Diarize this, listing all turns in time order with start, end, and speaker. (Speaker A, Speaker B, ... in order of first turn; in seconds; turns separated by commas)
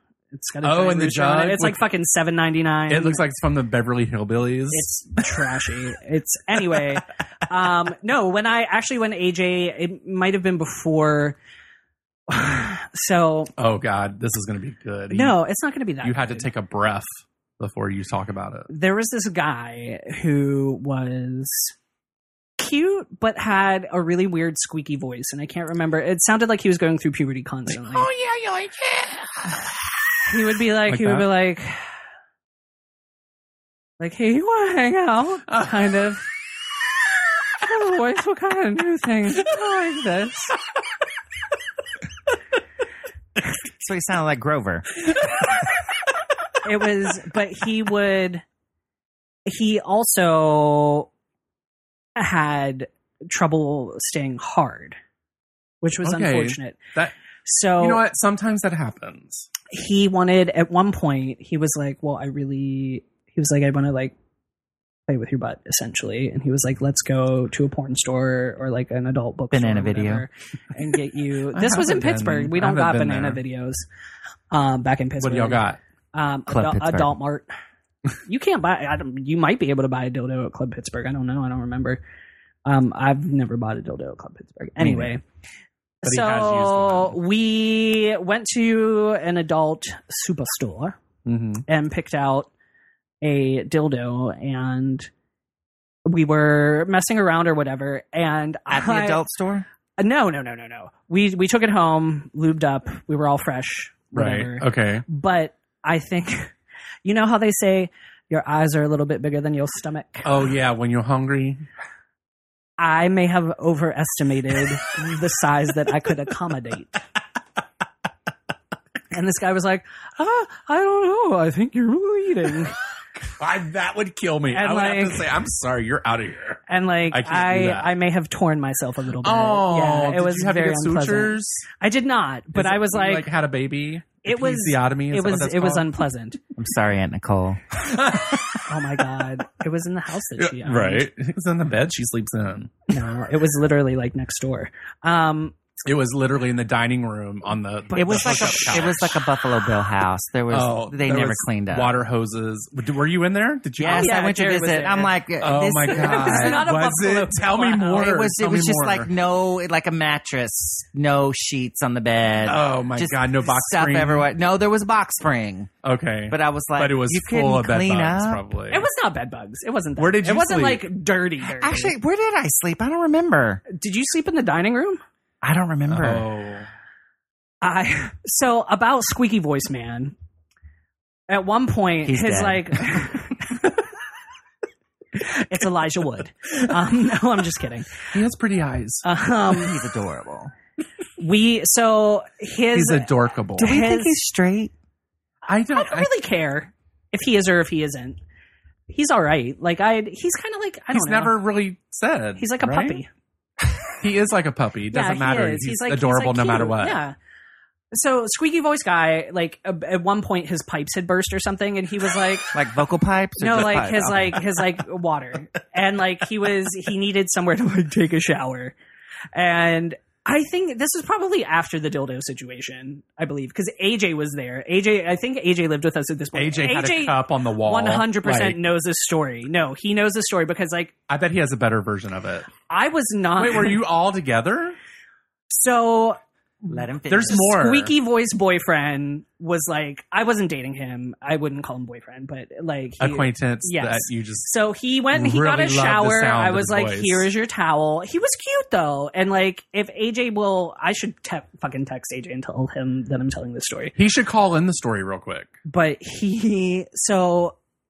Speaker A: 0.3-3.2, Speaker B: 0.6-1.8, Speaker B: 2.9-5.0, Speaker A: 4.7-11.4, Speaker A: 12.3-13.5, Speaker B: 13.6-15.3, Speaker A: 15.1-16.5, Speaker B: 16.0-18.7, Speaker A: 18.7-21.7, Speaker A: 22.6-28.1, Speaker B: 27.8-29.6, Speaker A: 30.3-31.8, Speaker B: 30.9-31.2, Speaker A: 34.0-36.2, Speaker A: 37.6-40.5, Speaker C: 43.8-44.9, Speaker A: 46.6-48.4, Speaker A: 49.5-51.1, Speaker A: 52.1-55.0, Speaker A: 55.8-56.8, Speaker B: 56.0-57.1, Speaker A: 57.5-58.0, Speaker B: 57.8-59.5, Speaker A: 59.7-64.1, Speaker A: 65.1-73.8, Speaker C: 69.5-70.2, Speaker B: 71.5-73.4, Speaker A: 74.5-75.6, Speaker B: 75.2-75.8, Speaker A: 76.1-77.5, Speaker C: 76.5-77.1, Speaker A: 78.2-82.0, Speaker A: 82.6-85.2, Speaker C: 84.8-85.1, Speaker A: 86.0-91.0, Speaker B: 86.0-87.2, Speaker B: 91.2-91.6, Speaker A: 91.7-92.5, Speaker A: 93.2-95.1, Speaker A: 96.0-99.2, Speaker C: 98.7-99.7, Speaker A: 100.0-106.5, Speaker B: 104.1-105.0, Speaker A: 107.0-110.4, Speaker B: 110.2-111.6, Speaker A: 112.8-117.0, Speaker A: 119.1-122.7, Speaker B: 123.4-127.9, Speaker A: 124.5-125.3, Speaker A: 126.7-133.3, Speaker B: 129.2-131.6, Speaker B: 132.5-136.0, Speaker A: 134.2-136.4, Speaker C: 136.6-137.6, Speaker B: 137.8-138.6, Speaker A: 138.7-141.1, Speaker B: 140.4-142.9, Speaker A: 142.9-145.6, Speaker B: 145.8-149.1, Speaker A: 147.9-148.9, Speaker C: 147.9-152.0, Speaker B: 150.5-154.1, Speaker C: 153.8-156.7, Speaker A: 153.8-155.2, Speaker B: 155.4-159.1, Speaker A: 155.9-158.0, Speaker C: 157.9-165.7, Speaker B: 162.4-164.3, Speaker B: 165.8-168.9, Speaker C: 166.3-168.4, Speaker A: 168.7-171.9, Speaker B: 170.0-170.9, Speaker C: 171.6-173.6, Speaker A: 173.7-175.0, Speaker C: 175.4-176.2, Speaker B: 175.9-176.7, Speaker A: 177.6-180.1, Speaker A: 181.3-183.4, Speaker C: 182.0-182.8, Speaker A: 185.1-187.9, Speaker B: 188.1-189.0, Speaker A: 189.0-189.8, Speaker C: 189.5-190.5, Speaker A: 191.2-194.2, Speaker B: 192.7-193.7, Speaker C: 193.6-194.7, Speaker B: 195.5-196.1, Speaker A: 195.7-198.2, Speaker A: 198.9-201.3, Speaker B: 200.9-203.0, Speaker A: 202.4-203.1, Speaker B: 204.0-207.0, Speaker A: 204.9-207.1, Speaker A: 207.9-212.5, Speaker C: 212.5-214.4, Speaker A: 213.4-218.7, Speaker A: 219.3-230.9, Speaker B: 226.3-228.6, Speaker B: 231.1-232.5, Speaker A: 232.7-233.8, Speaker B: 233.4-234.8, Speaker A: 235.5-236.2, Speaker C: 236.7-237.4, Speaker B: 237.1-237.9, Speaker A: 237.2-253.9, Speaker B: 243.0-244.5, Speaker B: 245.1-247.3, Speaker B: 254.0-255.5, Speaker A: 255.7-257.6